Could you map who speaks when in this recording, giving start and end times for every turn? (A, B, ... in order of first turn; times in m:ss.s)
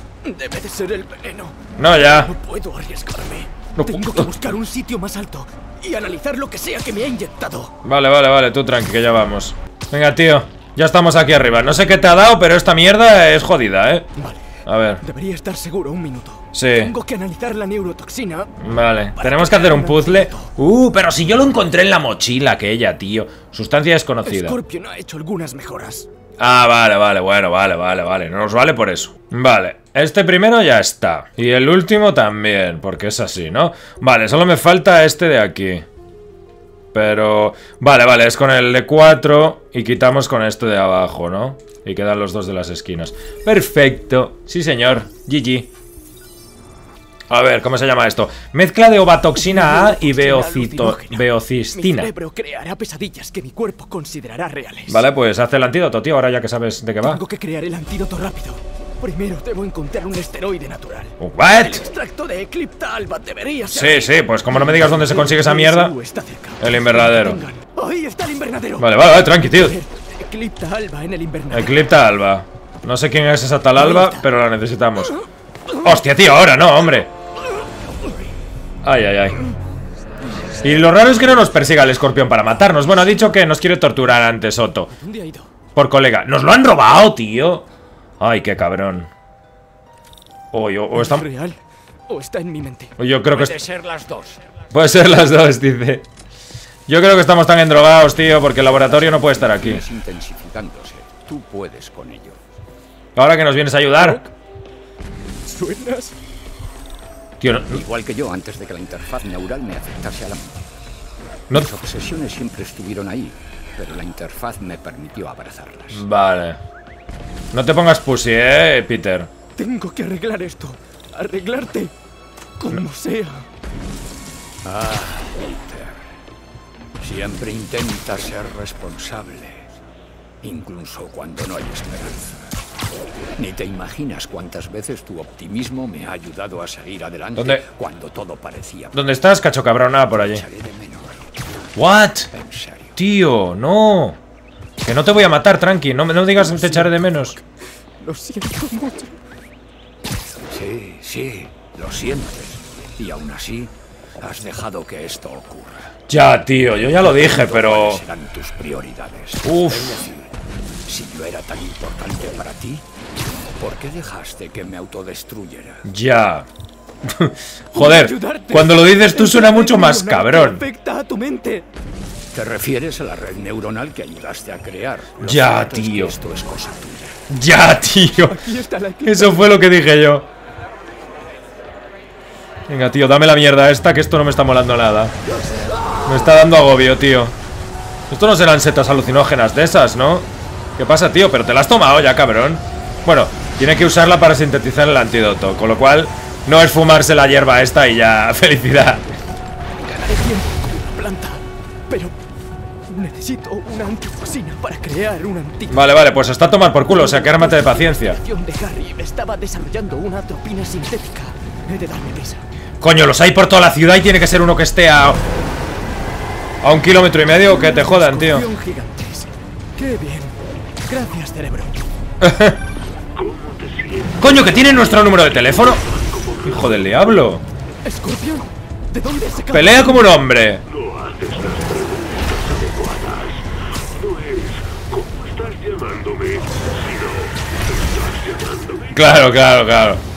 0:00.2-0:07.7 A
0:01.8-0:02.3 B
0:03.7-0:04.3 B
0:07.8-0:14.1 B
0:14.2-0:18.5 A
0:14.6-0:15.0 B
0:16.5-0:16.9 B
0:18.6-0:24.6 B
0:19.1-0:20.5 A
0:24.2-0:26.1 A
0:26.4-0:35.8 B
0:36.9-0:45.7 B
0:47.3-0:52.1 B
0:49.3-0:55.0 A
0:54.9-0:57.2 B
0:57.0-1:11.8 A
1:01.2-1:01.9 B
1:03.7-1:05.9 B
1:06.6-1:07.4 B
1:08.8-1:09.8 B
1:11.5-1:15.2 B
1:13.8-1:14.3 A
1:15.1-1:15.9 A
1:15.8-1:17.1 B
1:18.8-1:19.4 B
1:20.6-1:24.9 B
1:24.9-1:25.5 A
1:25.8-1:27.6 B
1:28.2-1:29.1 B
1:30.5-1:31.3 B
1:30.9-1:32.9 A
1:33.0-1:33.6 B
1:33.3-1:34.4 C
1:34.7-1:36.1 B
1:36.9-1:39.8 B
1:38.5-1:42.4 C
1:43.2-1:44.3 B
1:44.0-1:44.2 A
1:45.4-1:46.2 A
1:47.4-1:47.8 B
1:47.7-1:50.6 C
1:51.5-1:56.0 C
1:55.9-1:56.6 B
1:57.5-1:59.3 B
1:59.6-2:01.9 A
2:02.6-2:03.4 A
2:04.6-2:06.0 C
2:07.0-2:09.7 C
2:10.4-2:12.6 C
2:13.4-2:19.0 C
2:17.4-2:17.6 B
2:18.9-2:20.4 B
2:20.1-2:21.2 C
2:21.8-2:22.3 B
2:22.3-2:23.0 C
2:23.0-2:24.2 B
2:24.8-2:27.3 B
2:26.4-2:27.4 A
2:28.0-2:29.2 A
2:30.5-2:36.0 C
2:36.1-2:38.0 B
2:37.0-2:40.3 C
2:39.4-2:40.0 B
2:40.8-2:42.8 C
2:43.6-2:45.9 C
2:45.8-2:46.5 B
2:47.0-2:50.6 B
2:47.7-2:51.6 A
2:52.3-2:57.2 C
2:55.2-2:56.2 B
2:57.3-2:58.4 B
2:58.3-2:59.5 A
2:59.0-3:00.3 B
3:02.7-3:05.1 B
3:06.0-3:07.3 B
3:08.1-3:19.1 B
3:19.8-3:22.2 A
3:22.9-3:25.9 A
3:25.7-3:28.2 B
3:26.9-3:32.4 A
3:32.8-3:35.2 B
3:36.6-3:38.5 B
3:37.4-3:40.3 A
3:40.9-3:41.8 A
3:42.2-3:42.6 B
3:43.1-3:47.1 D
3:44.2-3:45.8 B
3:46.4-3:47.4 B
3:47.8-3:50.1 A
3:49.5-3:50.6 B
3:50.7-3:59.1 D
3:58.9-4:00.0 B